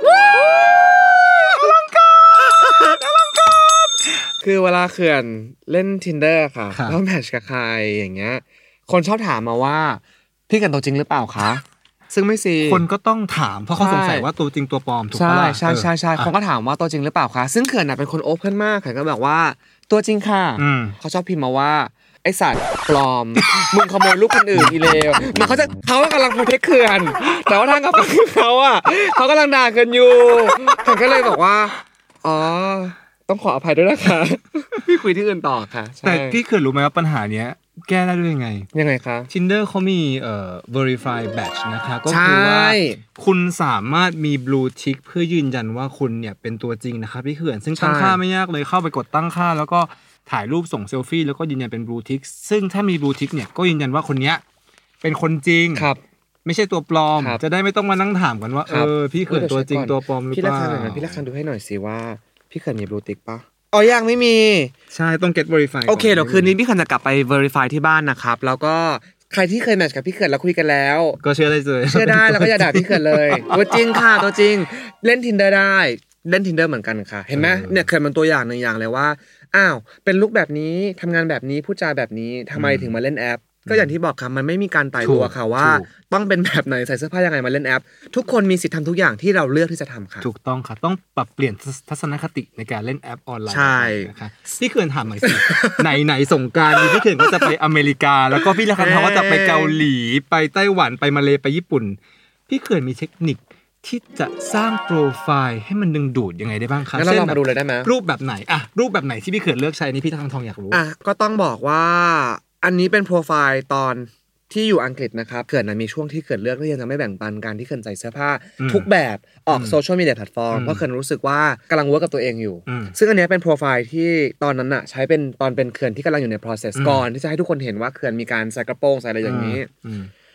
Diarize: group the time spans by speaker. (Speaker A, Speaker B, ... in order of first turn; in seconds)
Speaker A: 0.1-12.8, 13.8-14.3, 15.1-36.4, 38.7-39.3, 42.0-43.0, 47.8-48.2, 55.8-56.0, 58.7-64.7, 65.9-71.2, 71.9-90.3, 93.5-94.1, 95.2-95.9, 96.8-97.5, 98.8-99.8, 106.9-107.9, 110.7-129.7
Speaker B: 6.7-7.0, 12.6-16.3, 20.6-21.0, 36.0-38.7, 39.3-54.4, 55.0-55.9, 56.5-61.2, 64.9-66.5, 71.2-74.2, 77.3-77.9, 82.6-83.0, 85.0-85.9, 90.2-110.8, 118.6-118.9, 119.5-119.8, 120.5-120.8, 122.7-122.9, 126.8-127.0, 129.2-130.1